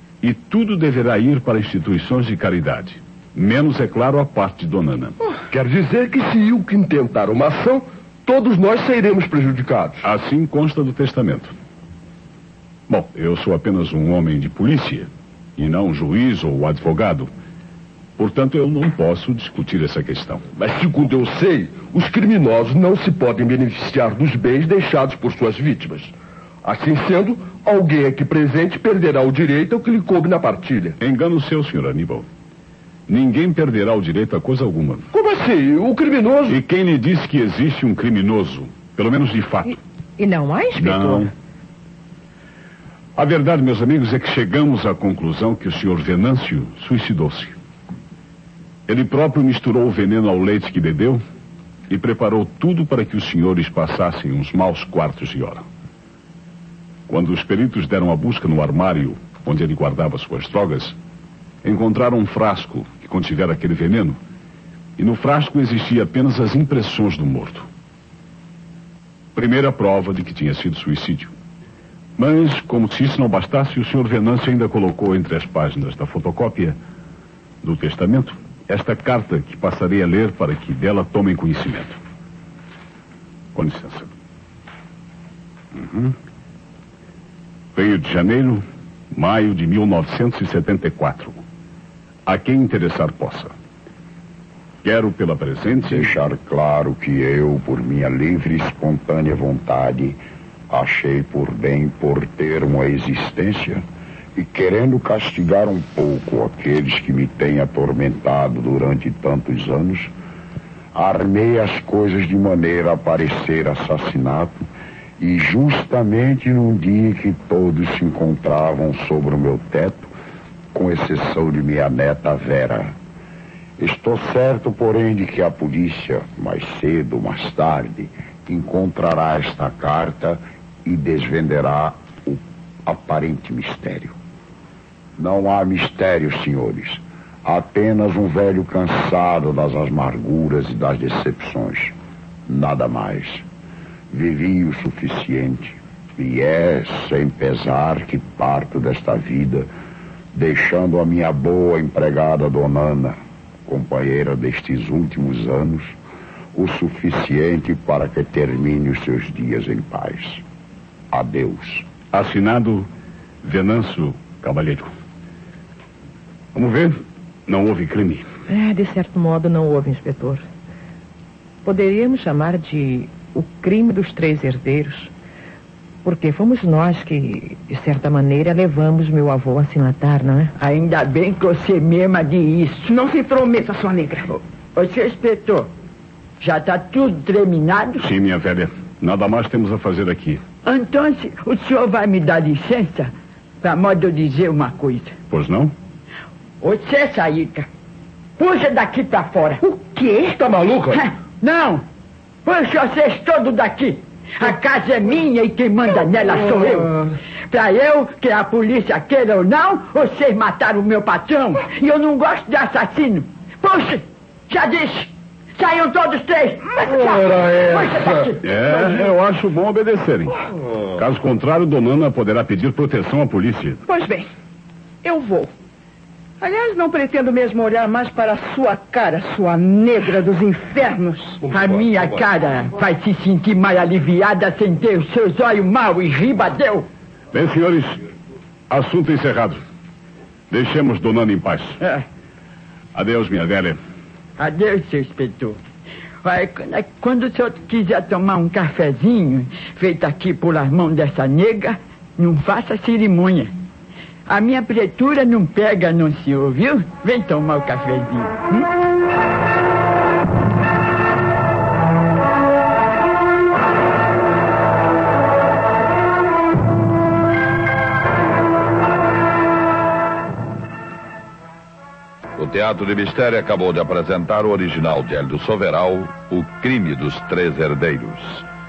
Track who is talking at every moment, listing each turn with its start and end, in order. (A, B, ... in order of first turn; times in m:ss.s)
0:00.2-0:05.2 A
0:05.5-0:10.0 B
0:10.0-0:11.5 A
0:12.9-0:17.3 A
0:18.2-0:20.4 A
0:20.6-0:31.0 B
0:31.0-0:32.3 A
0:33.1-0:35.1 A
0:35.1-0:36.6 B
0:36.5-0:39.8 A
0:39.7-0:41.3 C
0:40.8-0:41.3 A
0:43.2-0:47.6 A
0:48.9-0:51.2 A
0:51.9-0:55.6 A
0:57.1-1:01.0 A
1:01.6-1:04.2 A
1:05.0-1:07.7 A
1:09.3-1:11.3 A
1:12.2-1:16.8 A
1:17.6-1:22.0 A
1:23.5-1:24.1 A
1:25.7-1:26.2 A
1:27.7-1:31.4 A
1:32.3-1:33.5 A
1:34.8-1:36.2 A
1:35.8-1:50.1 D
1:50.9-1:54.6 D
1:55.2-2:00.1 D
2:00.7-2:03.0 D
2:03.8-2:14.2 D
2:15.2-2:21.9 D
2:22.5-2:23.4 D
2:24.1-2:29.7 D
2:30.3-2:36.0 D
2:36.5-2:40.4 D
2:41.1-2:41.8 D
2:42.1-2:42.9 A
2:43.4-2:44.9 A
2:46.5-2:48.2 A
2:48.5-2:50.4 C
2:51.6-2:55.1 C
2:56.0-3:00.5 C
3:00.6-3:02.9 E
3:02.8-3:04.3 F
3:04.7-3:05.7 E
3:06.4-3:08.0 E
3:08.0-3:10.4 A
3:10.6-3:15.1 E
3:15.3-3:15.7 A
3:16.6-3:17.7 E
3:18.4-3:19.6 E
3:19.6-3:20.5 F
3:20.3-3:21.0 B
3:20.9-3:21.8 E
3:22.4-3:26.9 E
3:27.5-3:38.4 E
3:36.9-3:38.3 B
3:38.4-3:40.4 A
3:41.0-3:43.8 A
3:43.8-3:44.3 F
3:45.0-3:45.5 F
3:46.4-3:51.4 F
3:51.4-3:52.1 B
3:51.5-3:56.9 E
3:57.3-3:58.0 A
3:58.7-3:59.6 A
4:00.5-4:01.8 A
4:01.8-4:02.0 E
4:02.9-4:03.8 A
4:04.4-4:05.6 E
4:06.2-4:13.5 E
4:14.3-4:18.6 E
4:32.4-4:38.4 G